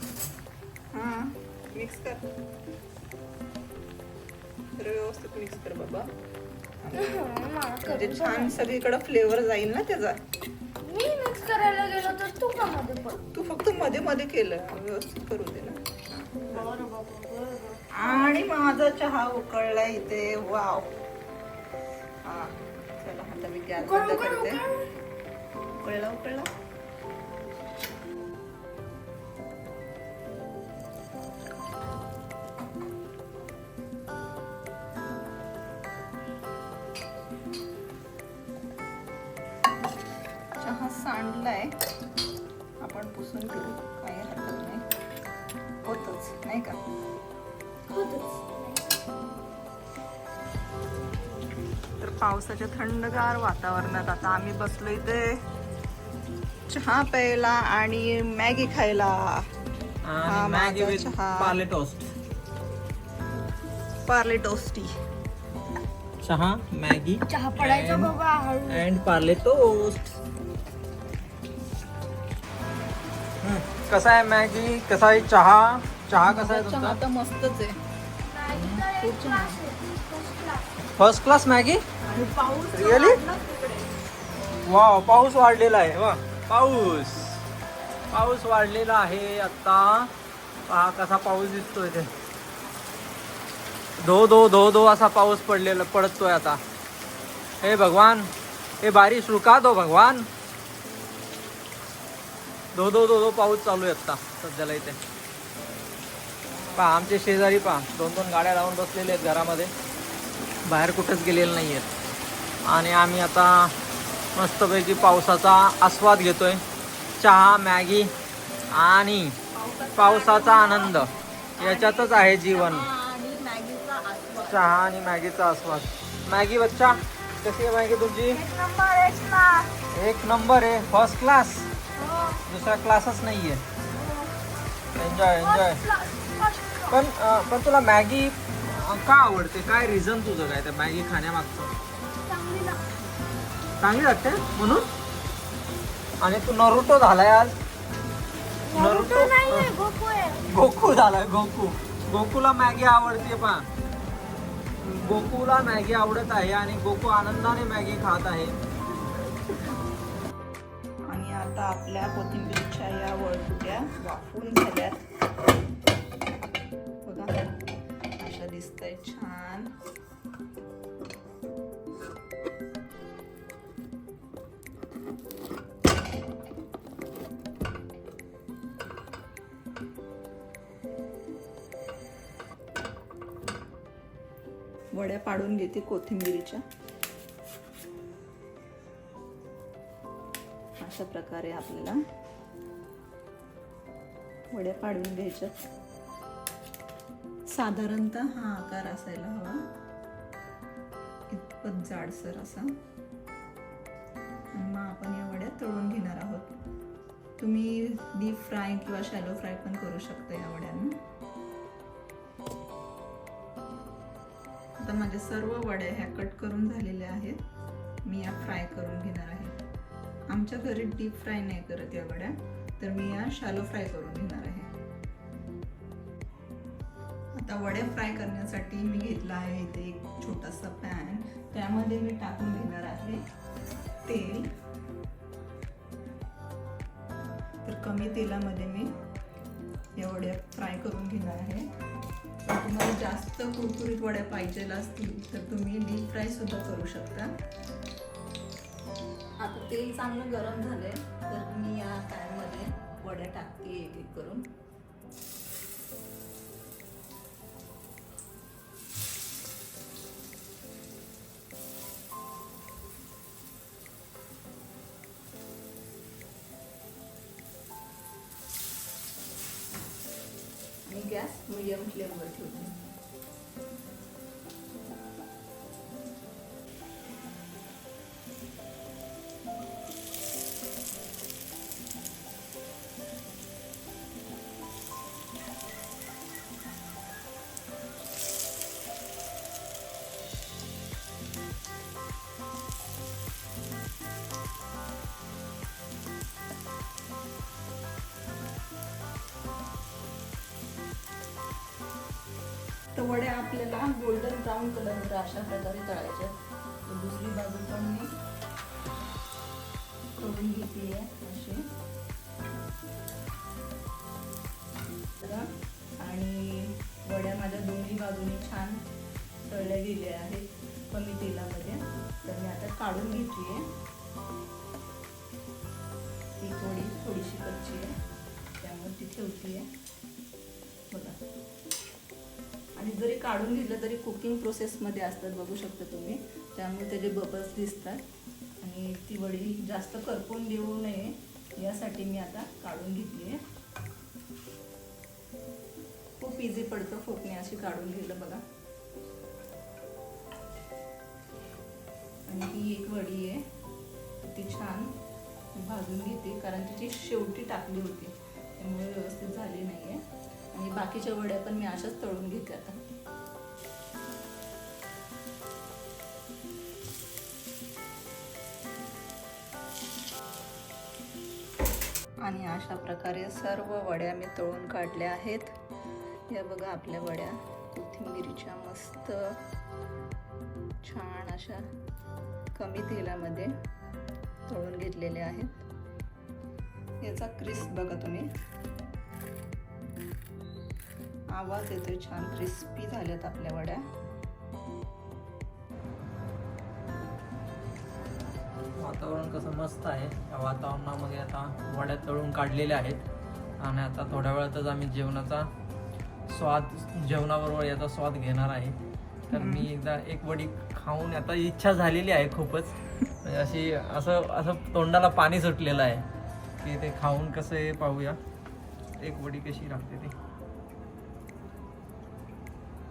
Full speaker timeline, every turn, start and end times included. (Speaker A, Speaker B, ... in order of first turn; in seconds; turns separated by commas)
Speaker A: 0.9-2.2, Speaker A: 4.8-6.1, Speaker A: 6.8-7.2, Speaker B: 6.9-8.6, Speaker A: 7.8-10.2, Speaker B: 10.8-13.2, Speaker A: 13.3-16.7, Speaker B: 16.4-18.5, Speaker A: 17.9-20.9, Speaker A: 22.2-24.6, Speaker B: 23.8-24.8, Speaker A: 25.8-26.5, Speaker A: 40.6-41.7, Speaker A: 42.8-44.8, Speaker A: 45.8-46.8, Speaker B: 47.9-49.0, Speaker A: 52.0-55.4, Speaker A: 56.7-59.5, Speaker C: 60.0-62.1, Speaker A: 60.2-61.6, Speaker A: 64.0-65.0, Speaker C: 66.2-68.1, Speaker B: 67.3-68.8, Speaker C: 68.7-70.1, Speaker C: 73.4-77.0, Speaker A: 76.2-77.8, Speaker B: 78.2-80.7, Speaker C: 78.5-78.8, Speaker A: 78.8-79.6, Speaker C: 81.0-81.8, Speaker A: 82.0-83.9, Speaker C: 82.7-83.2, Speaker C: 84.6-87.5, Speaker C: 88.1-90.1, Speaker C: 90.7-92.1, Speaker C: 94.0-96.6, Speaker C: 97.6-98.3, Speaker C: 98.8-100.3, Speaker C: 102.7-105.0, Speaker A: 106.5-107.1, Speaker C: 106.8-109.7, Speaker C: 110.6-111.9, Speaker C: 112.6-113.7, Speaker C: 114.3-116.6, Speaker C: 117.2-118.1, Speaker C: 118.7-119.3, Speaker A: 119.5-120.9, Speaker C: 120.0-122.8, Speaker A: 121.6-124.7, Speaker C: 124.5-128.4, Speaker A: 128.3-129.7, Speaker C: 129.9-131.7, Speaker B: 132.0-132.4, Speaker C: 132.5-133.6, Speaker B: 133.9-134.3, Speaker C: 134.9-135.8, Speaker B: 135.4-137.0, Speaker C: 136.9-141.7, Speaker B: 142.2-143.0, Speaker C: 143.8-144.9, Speaker C: 146.2-147.5, Speaker B: 148.7-150.4, Speaker C: 148.7-149.7, Speaker C: 150.5-153.7, Speaker C: 154.8-158.5, Speaker A: 161.1-165.0, Speaker A: 167.0-167.5, Speaker A: 168.2-169.7, Speaker A: 184.9-186.6, Speaker A: 190.8-192.0, Speaker A: 194.5-195.6, Speaker A: 197.5-199.6, Speaker A: 201.3-202.7, Speaker A: 204.5-206.5, Speaker A: 207.4-210.9, Speaker A: 214.8-217.4, Speaker A: 218.0-219.5, Speaker A: 220.3-224.7, Speaker A: 227.3-233.2, Speaker A: 234.1-234.5, Speaker A: 237.6-238.9, Speaker A: 240.0-241.7, Speaker A: 242.4-247.3, Speaker A: 249.4-254.4, Speaker A: 270.9-272.8, Speaker A: 302.9-308.1, Speaker A: 310.2-311.6, Speaker A: 315.2-315.5, Speaker A: 316.0-318.8, Speaker A: 319.5-323.7, Speaker A: 326.4-327.9, Speaker A: 328.6-329.6, Speaker A: 330.9-331.2, Speaker A: 332.8-338.0, Speaker A: 338.6-343.4, Speaker A: 346.2-348.4, Speaker A: 352.3-353.4, Speaker A: 354.2-354.9, Speaker A: 355.6-360.0, Speaker A: 360.5-362.8, Speaker A: 372.2-375.6, Speaker A: 376.3-379.4, Speaker A: 380.8-381.6, Speaker A: 382.5-383.5, Speaker A: 384.5-385.6, Speaker A: 387.0-388.3, Speaker A: 391.3-393.8, Speaker C: 398.8-403.0, Speaker C: 403.6-405.5, Speaker C: 406.3-408.8, Speaker C: 409.3-416.1, Speaker A: 409.3-409.7, Speaker C: 416.6-418.2, Speaker C: 419.0-420.1